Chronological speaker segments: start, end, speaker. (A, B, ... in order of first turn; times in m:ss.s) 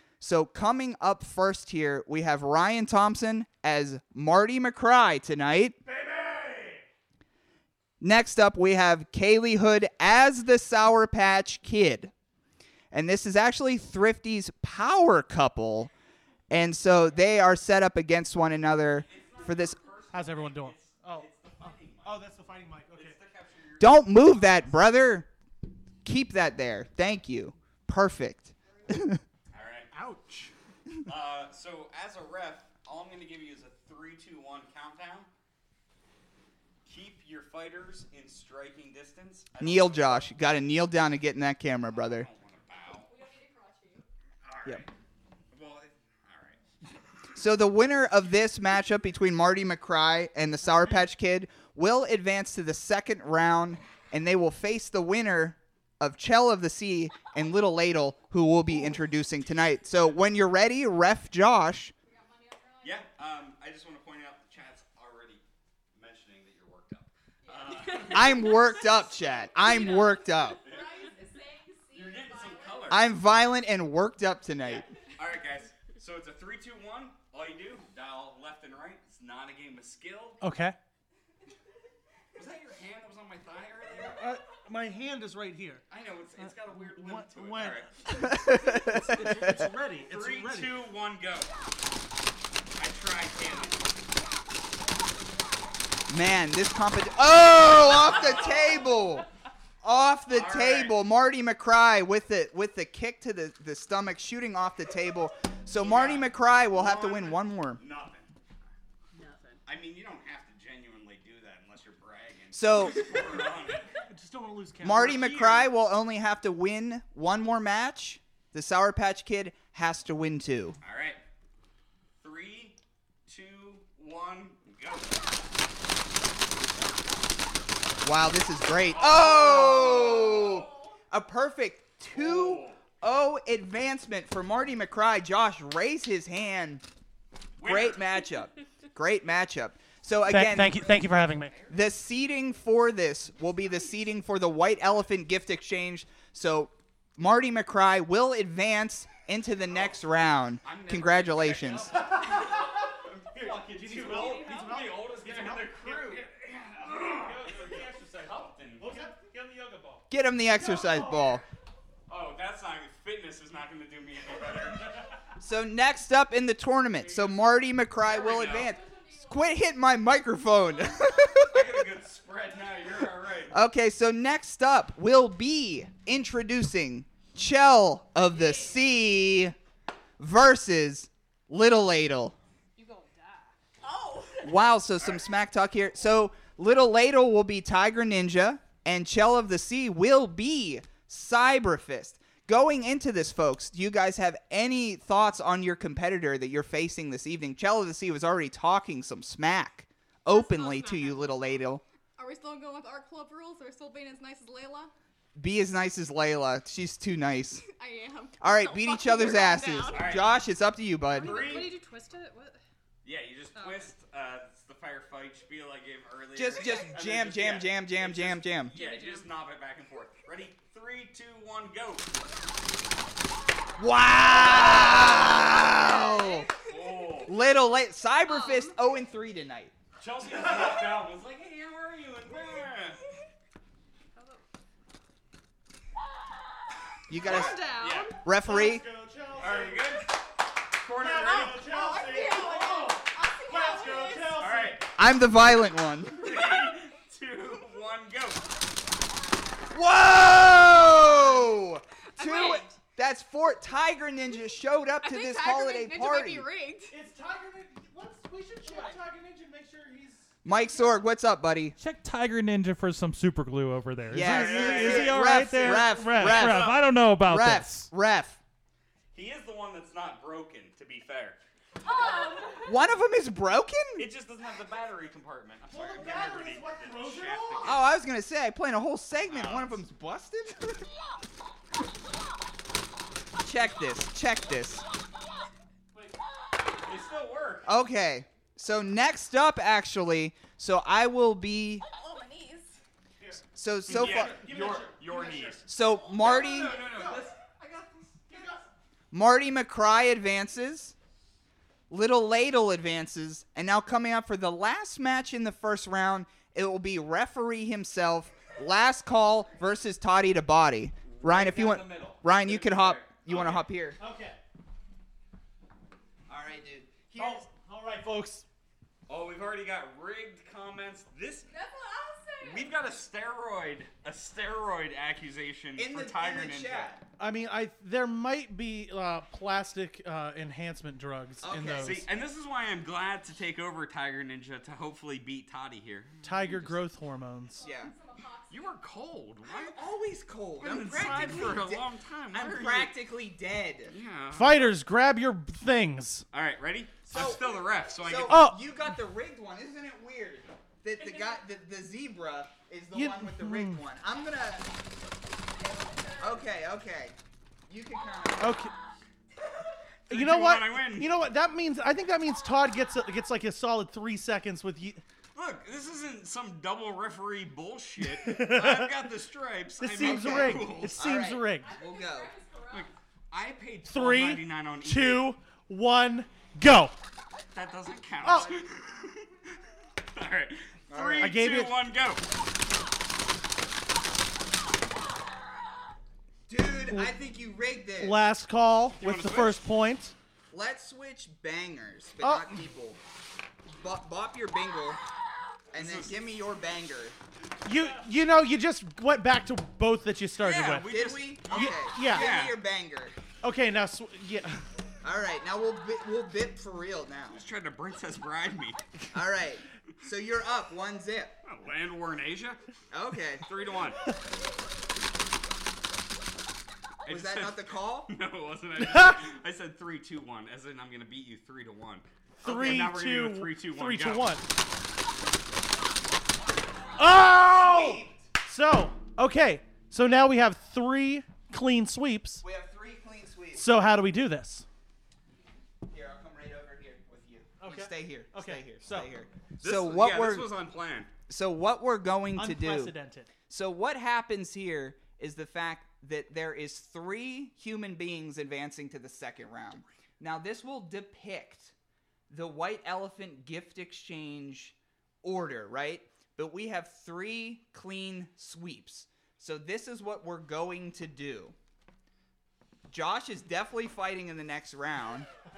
0:00.2-0:05.8 A
0:05.9-0:06.8 B
0:08.0-0:12.1 A
0:12.9-0:15.9 A
0:16.5-0:19.8 A
0:19.0-0:22.2 C
0:20.1-0:23.2 B
0:22.9-0:24.8 C
0:23.8-0:25.3 A
0:26.0-0:29.2 A
0:29.5-0:29.9 C
0:29.9-0:30.5 B
0:31.1-0:35.3 C
0:36.9-0:40.3 C
0:39.6-0:42.3 A
0:41.9-0:43.1 C
0:43.0-0:44.1 D
0:44.4-0:44.9 C
0:45.5-0:46.6 C
0:47.4-1:01.9 A
1:02.0-1:03.1 D
1:02.8-1:05.4 C
1:05.9-1:08.6 C
1:07.4-1:13.0 D
1:08.1-1:10.6 A
1:10.6-1:11.0 C
1:11.9-1:13.0 C
1:12.9-1:14.9 A
1:14.7-1:20.4 C
1:20.4-1:20.8 B
1:22.4-1:24.2 C
1:24.0-1:25.8 B
1:25.9-1:28.9 C
1:26.4-1:30.8 B
1:28.2-1:29.1 A
1:30.0-1:31.5 C
1:32.8-1:33.8 C
1:36.1-1:39.3 A
1:37.8-1:38.9 C
1:39.8-1:47.8 A
1:40.3-1:41.0 C
1:45.8-1:48.3 C
1:49.1-1:49.6 E
1:49.7-1:54.0 C
1:52.5-1:53.1 A
1:54.1-1:55.2 B
1:54.8-2:00.8 A
1:54.9-1:55.7 C
2:00.8-2:01.2 C
2:02.2-2:05.2 C
2:08.0-2:16.8 A
2:08.9-2:10.6 C
2:09.7-2:11.0 D
2:12.1-2:12.8 C
2:17.6-2:18.2 C
2:17.6-2:20.8 A
2:20.3-2:21.5 B
2:20.5-2:21.8 C
2:21.7-2:32.0 A
2:30.6-2:38.9 C
2:32.0-2:32.7 B
2:33.3-2:36.3 B
2:37.2-2:38.1 B
2:37.4-2:38.3 F
2:38.8-2:41.4 B
2:40.1-2:41.4 A
2:42.1-2:45.0 C
2:45.4-2:51.6 A
2:47.0-2:47.4 C
2:48.0-2:48.7 C
2:48.4-2:49.5 D
2:51.5-2:53.5 C
2:53.5-2:59.6 A
3:00.2-3:02.4 A
3:02.8-3:03.5 E
3:03.8-3:04.6 D
3:04.4-3:21.8 A
3:05.0-3:05.2 C
3:20.3-3:21.3 E
3:22.2-3:24.9 D
3:25.4-3:27.6 A
3:27.7-3:30.2 D
3:28.4-3:31.7 A
3:29.9-3:30.3 C
3:31.1-3:32.6 E
3:31.2-3:31.8 C
3:33.0-3:42.1 C
3:33.6-3:33.9 E
3:36.4-3:38.7 A
3:36.6-3:36.9 D
3:38.7-3:39.3 E
3:43.8-3:46.5 A
3:44.3-3:45.2 C
3:44.6-3:47.3 D
3:46.6-3:47.3 C
3:47.3-3:49.7 A
3:48.3-3:48.8 D
3:50.0-3:53.0 C
3:54.2-3:54.4 E
3:57.1-3:57.6 A
3:57.2-3:58.2 E
3:57.2-3:58.2 C
3:58.2-3:58.9 A
3:58.4-4:00.0 B
3:59.4-4:01.7 C
4:01.0-4:04.9 B
4:01.2-4:04.5 D
4:04.4-4:04.8 C
4:05.0-4:06.3 A
4:06.2-4:08.4 C
4:09.7-4:16.5 A
4:12.2-4:12.8 D
4:15.0-4:17.0 D
4:16.9-4:20.4 B
4:20.4-4:21.8 A
4:21.8-4:27.9 F
4:24.1-4:26.8 B
4:24.1-4:28.4 A
4:24.2-4:26.8 C
4:29.1-4:31.4 C
4:31.8-4:32.7 D
4:31.8-4:32.6 E
4:32.7-4:34.0 A
4:34.0-4:37.8 C
4:35.7-4:37.8 B
4:37.6-4:40.9 A
4:39.3-4:39.8 C
4:43.4-4:44.8 A
4:46.7-4:47.7 C
4:47.7-4:51.8 A
4:51.9-4:52.8 D
4:53.2-4:55.6 B
4:53.6-4:54.4 A
4:53.9-4:55.6 C
4:55.7-4:56.8 A
4:56.2-4:57.6 C
4:56.4-4:57.2 D
4:58.2-4:58.7 B
4:59.1-5:00.9 A
5:01.9-5:14.0 A
5:11.1-5:13.6 C
5:13.3-5:14.4 B
5:16.3-5:17.5 A
5:17.2-5:18.5 B
5:19.1-5:21.5 C
5:21.5-5:22.7 D
5:22.4-5:26.9 C
5:25.8-5:27.0 A
5:27.2-5:32.1 B
5:31.4-5:32.0 A
5:31.8-5:36.8 C
5:36.2-5:37.6 B
5:37.5-5:38.8 D
5:37.6-5:37.9 A
5:38.5-5:39.8 C
5:39.5-5:39.8 D
5:39.5-5:43.9 A
5:40.6-5:42.9 C
5:43.9-5:44.7 C
5:44.3-5:46.2 B
5:46.3-5:48.5 C
5:47.1-5:54.7 A
5:48.3-5:48.6 B
5:51.0-5:51.4 D
5:52.9-5:53.8 B
5:55.5-5:56.5 D
5:56.2-5:57.2 A
5:57.7-5:58.6 A
5:58.4-5:58.7 B
6:00.1-6:01.1 C
6:00.1-6:05.0 B
6:05.4-6:11.0 C
6:08.0-6:09.1 B
6:09.8-6:11.7 B
6:10.0-6:12.3 A
6:11.6-6:12.9 D
6:12.7-6:15.3 C
6:13.9-6:17.0 B
6:17.5-6:19.3 C
6:18.2-6:18.5 B
6:20.1-6:22.2 C
6:20.9-6:21.4 A
6:21.2-6:21.8 B
6:26.5-6:28.2 A
6:26.9-6:27.2 B
6:28.0-6:30.2 B
6:29.0-6:29.6 C
6:30.5-6:33.0 A
6:32.2-6:32.7 B
6:33.7-6:35.0 A
6:35.7-6:37.2 A
6:35.7-6:36.1 C
6:37.6-6:42.3 B
6:40.4-6:42.6 C
6:40.9-6:43.2 A
6:43.4-6:44.6 B
6:45.0-6:47.4 A
6:47.3-6:48.8 C
6:49.1-6:51.4 A
6:51.4-6:52.6 C
6:52.9-6:53.5 A
6:53.4-6:54.1 C
6:57.0-7:04.4 C
6:57.1-6:58.1 A
6:58.8-6:59.2 B
7:02.4-7:04.5 B
7:07.0-7:12.4 B
7:07.4-7:08.2 A
7:12.4-7:13.6 A
7:13.5-7:14.7 B
7:15.9-7:20.5 A
7:17.6-7:19.1 B
7:19.6-7:21.1 C
7:21.3-7:22.9 A
7:22.4-7:23.3 B
7:23.5-7:31.7 A
7:32.3-7:41.6 A
7:42.9-7:45.3 A